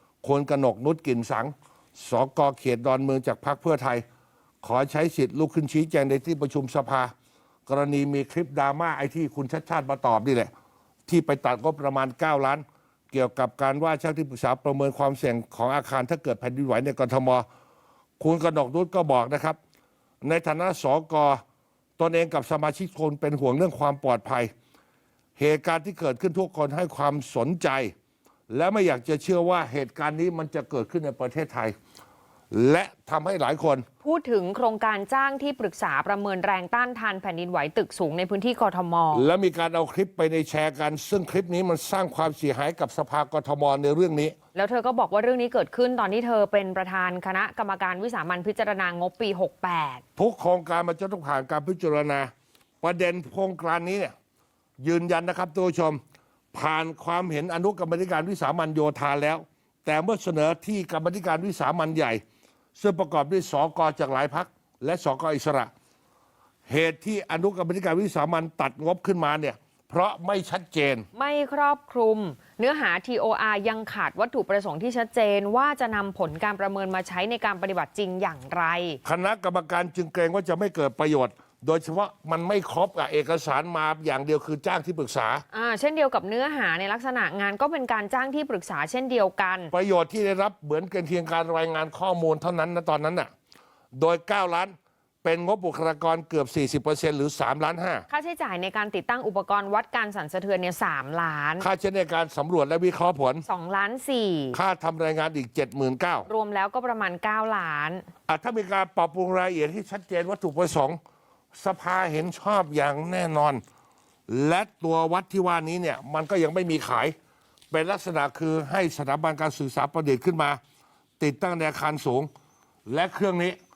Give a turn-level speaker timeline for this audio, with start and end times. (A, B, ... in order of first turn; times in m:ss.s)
0:00.2-0:04.0 A
0:04.6-0:07.1 A
0:07.7-0:10.5 A
0:11.1-0:17.5 A
0:18.2-0:19.6 A
0:20.2-0:21.4 A
0:22.0-0:24.5 A
0:25.4-0:27.9 A
0:28.5-0:31.8 A
0:32.5-0:33.9 A
0:34.0-0:39.3 B
0:39.1-0:44.3 A
0:44.5-0:50.0 B
0:50.2-0:52.3 A
0:52.8-0:54.1 A
0:54.8-0:56.0 A
0:56.5-1:02.2 A
1:02.8-1:05.7 A
1:06.7-1:11.1 A
1:11.1-1:19.0 B
1:19.0-1:25.4 A
1:25.5-1:29.7 B
1:29.7-1:33.3 A
1:34.0-1:38.1 A
1:38.1-1:41.7 B
1:41.6-1:43.4 A
1:43.4-1:44.6 B
1:44.5-1:46.3 A
1:46.3-1:48.1 B
1:48.3-1:51.0 A
1:51.5-1:53.6 A
1:54.3-1:57.2 A
1:57.7-2:00.6 A
2:01.2-2:02.3 A
2:02.9-2:03.6 A